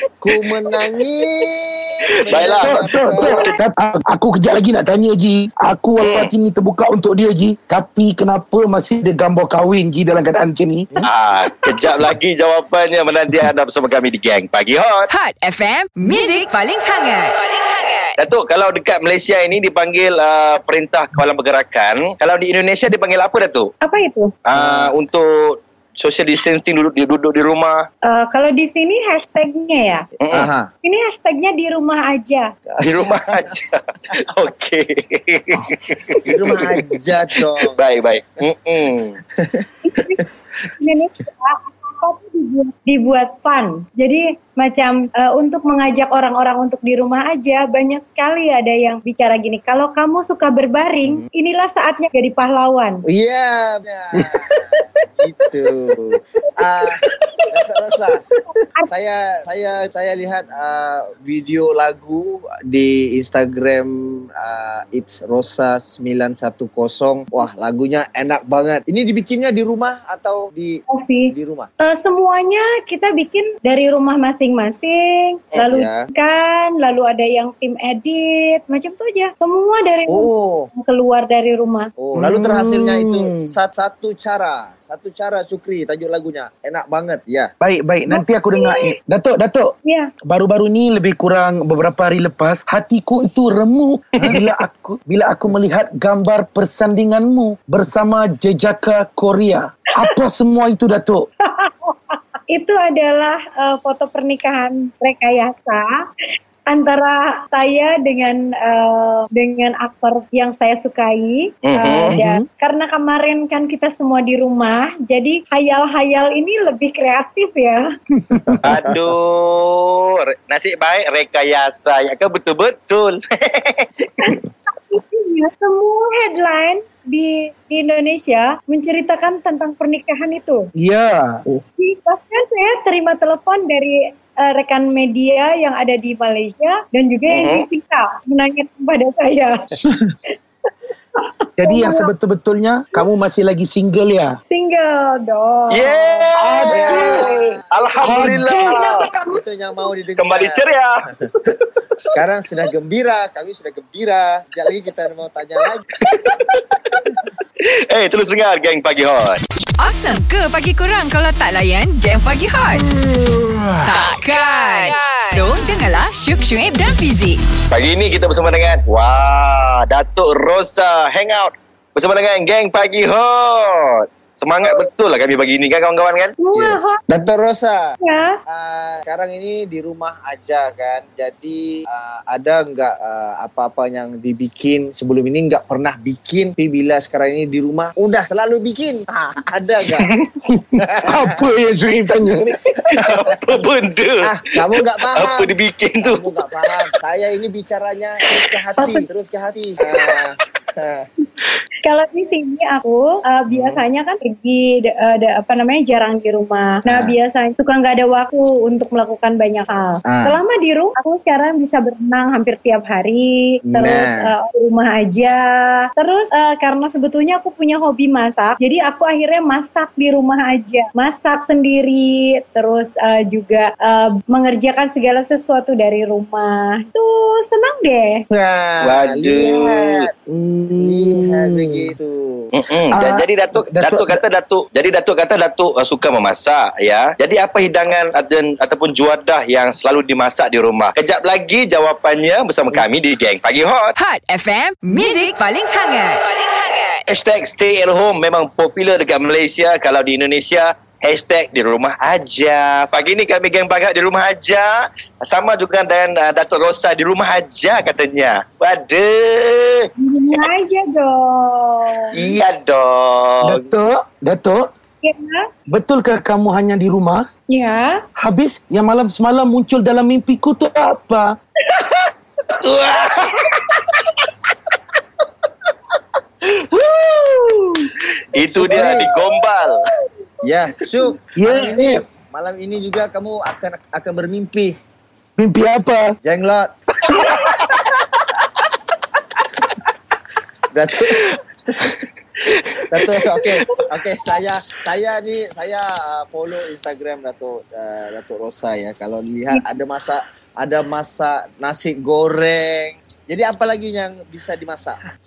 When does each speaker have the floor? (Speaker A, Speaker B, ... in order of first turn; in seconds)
Speaker A: 0.2-3.5, 24.5-24.9, 30.3-30.7, 32.7-33.5, 36.2-37.8, 39.4-40.2, 53.1-54.6, 55.2-57.0, 57.5-58.2, 58.9-71.7, 75.7-76.0, 80.1-80.7, 82.0-87.5, 145.8-148.1, 149.3-150.6, 152.1-155.8, 176.5-177.8, 178.5-190.1, 190.8-191.3, 194.2-201.1, 203.5-203.8, 206.9-207.2, 210.1-210.4, 213.7-214.3, 228.3-230.1, 230.8-232.5, 278.4-279.1, 280.4-284.8, 286.2-286.7, 290.7-291.9, 292.9-305.0
Speaker B: 2.2-3.4, 6.0-6.3, 11.1-15.1, 18.2-23.7, 24.5-27.9, 30.2-30.5, 32.8-33.8, 34.3-39.2, 111.7-112.2, 118.6-123.9, 137.3-137.6, 145.7-149.0, 150.2-150.9, 156.0-157.0, 157.9-159.4, 167.7-176.3, 192.9-194.3, 195.1-196.3, 228.8-230.1, 232.5-243.9, 247.1-254.7, 255.2-260.4, 262.1-263.6, 272.6-273.6, 278.3-279.8
Speaker C: 2.3-11.1, 54.2-54.6, 82.2-83.5, 87.6-89.7, 90.3-101.3, 112.1-112.5, 118.2-118.6, 130.8-131.6, 141.6-144.4, 146.3-147.3, 148.0-148.7, 190.0-192.6, 230.3-231.9, 232.9-234.2, 263.4-264.6, 265.7-267.3, 268.2-271.3, 276.8-277.6, 281.4-282.0, 285.4-286.1, 287.1-287.7
Speaker D: 15.1-18.1, 159.8-162.9, 163.8-167.4, 243.9-247.1
Speaker E: 23.8-24.3, 28.1-30.1, 30.8-32.5, 39.9-40.2, 40.8-53.0, 70.9-71.3, 71.8-81.9, 88.1-88.9, 89.8-90.1, 101.4-105.9, 106.7-117.8, 124.2-130.7, 131.8-139.6, 141.2-142.1, 144.5-145.9, 146.8-147.2, 148.1-149.4, 176.4-177.0, 178.0-178.3, 198.8-199.0, 201.8-228.2, 260.0-262.1, 265.0-265.4, 267.5-268.0